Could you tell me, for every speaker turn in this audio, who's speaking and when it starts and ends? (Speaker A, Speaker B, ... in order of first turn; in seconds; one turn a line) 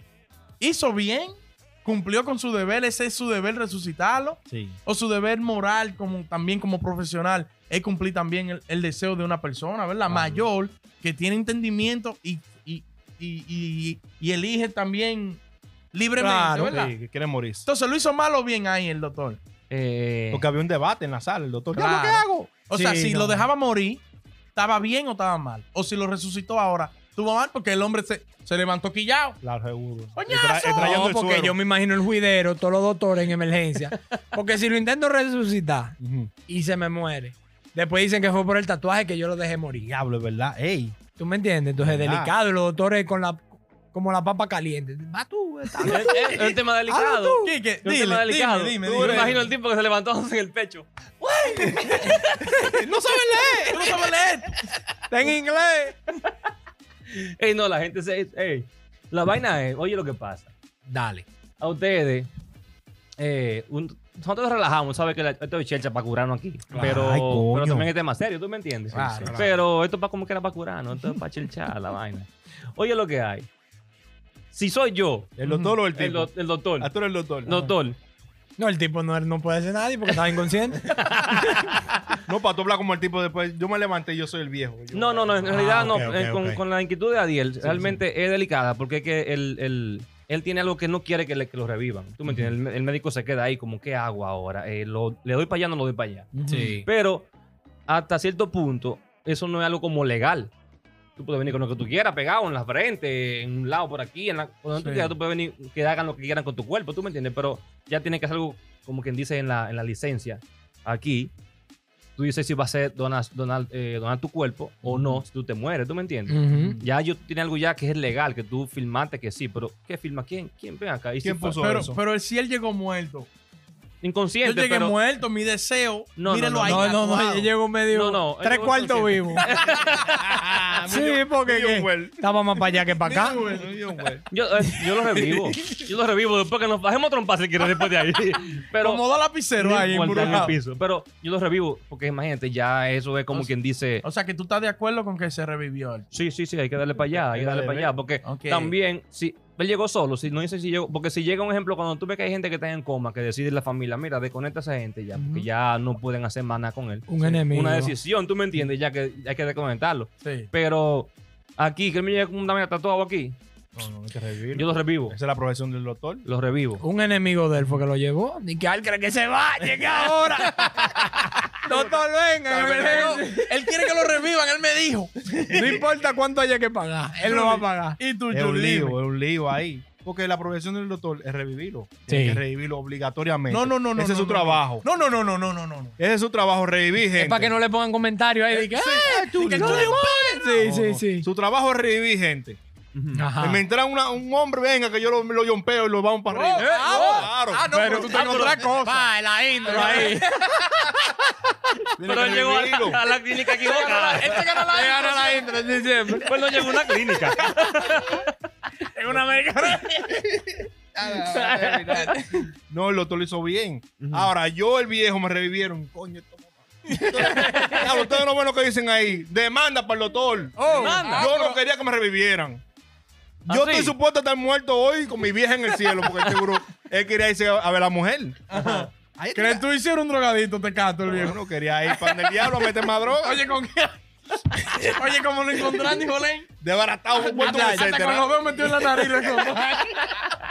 Speaker A: 0.6-15.4
Speaker B: 4.5-4.8
Speaker B: 10.1-10.4
Speaker A: 15.9-16.9
Speaker C: 16.2-16.9
Speaker B: 16.6-17.7
Speaker A: 17.6-19.4
Speaker D: 19.7-20.5
Speaker B: 20.3-22.5
Speaker A: 21.7-24.0
Speaker C: 22.7-23.5
Speaker A: 24.6-29.4
Speaker B: 29.4-31.6
Speaker A: 30.2-31.0
Speaker C: 30.8-36.0
Speaker B: 36.0-36.3
Speaker C: 36.5-39.9
Speaker B: 39.8-41.0
Speaker C: 41.2-47.5
Speaker B: 41.8-42.3
Speaker B: 45.6-46.0
Speaker D: 45.8-52.2
Speaker A: 47.4-49.5
Speaker B: 48.8-49.5
Speaker C: 51.7-52.8
Speaker B: 52.7-54.0
Speaker A: 53.7-54.6
Speaker C: 55.1-56.0
Speaker D: 57.1-60.5
Speaker C: 60.9-61.2
Speaker D: 61.6-62.3
Speaker D: 63.2-73.5
Speaker B: 66.7-67.9
Speaker B: 68.9-69.6
Speaker A: 68.9-69.4
Speaker D: 74.5-75.3
Speaker B: 75.4-77.6
Speaker A: 75.4-75.8
Speaker D: 75.9-76.9
Speaker D: 77.5-78.0
Speaker C: 78.6-80.9
Speaker D: 80.8-82.0
Speaker B: 82.3-86.6
Speaker D: 84.9-97.3
Speaker C: 85.6-86.1
Speaker A: 96.3-96.7
Speaker C: 96.5-96.8
Speaker D: 97.9-100.5
Speaker D: 101.2-111.3
Speaker A: 104.8-105.2
Speaker D: 112.2-121.6
Speaker C: 116.3-116.8
Speaker A: 116.5-116.8
Speaker B: 121.2-122.0
Speaker A: 121.6-123.3
Speaker D: 124.0-125.0
Speaker A: 124.4-127.5
Speaker D: 126.2-127.2
Speaker C: 126.6-129.5
Speaker D: 127.9-130.4
Speaker B: 130.1-132.2
Speaker C: 130.9-133.5
Speaker A: 132.8-134.1
Speaker B: 133.6-134.2
Speaker D: 134.3-139.1
Speaker A: 138.6-140.6
Speaker D: 139.6-144.0
Speaker A: 144.0-146.2
Speaker D: 146.1-163.4
Speaker B: 147.1-147.9
Speaker A: 148.2-148.8
Speaker A: 155.1-155.5
Speaker C: 157.1-158.0
Speaker A: 160.2-160.5
Speaker B: 163.8-166.2
Speaker D: 164.5-165.2
Speaker D: 166.2-166.8
Speaker C: 166.8-173.5
Speaker B: 171.7-173.1
Speaker A: 172.5-175.8
Speaker C: 175.5-178.0
Speaker A: 177.2-179.0
Speaker B: 178.3-184.9
Speaker C: 182.1-182.4
Speaker A: 183.5-186.0
Speaker B: 186.0-187.6
Speaker C: 187.2-191.3
Speaker A: 188.5-190.5
Speaker B: 189.0-192.6
Speaker D: 192.9-193.2
Speaker C: 193.2-193.6
Speaker B: 193.4-198.3
Speaker A: 196.3-199.1
Speaker C: 196.6-201.0
Speaker D: 196.8-197.3
Speaker D: 198.1-198.6
Speaker A: 199.7-200.9
Speaker B: 202.0-203.0
Speaker D: 202.1-204.6
Speaker A: 203.5-205.6
Speaker C: 204.7-206.6
Speaker D: 206.2-208.3
Speaker C: 208.9-210.3
Speaker B: 210.9-222.6
Speaker D: 211.3-212.2
Speaker D: 214.0-214.3
Speaker C: 217.0-217.9
Speaker A: 217.1-217.5
Speaker C: 220.6-221.6
Speaker D: 220.7-221.3
Speaker B: 223.5-229.7
Speaker D: 223.5-223.9
Speaker A: 228.5-231.4
Speaker B: 231.1-233.5
Speaker A: 231.9-236.5
Speaker B: 236.6-238.9
Speaker C: 237.2-237.9
Speaker A: 237.2-240.2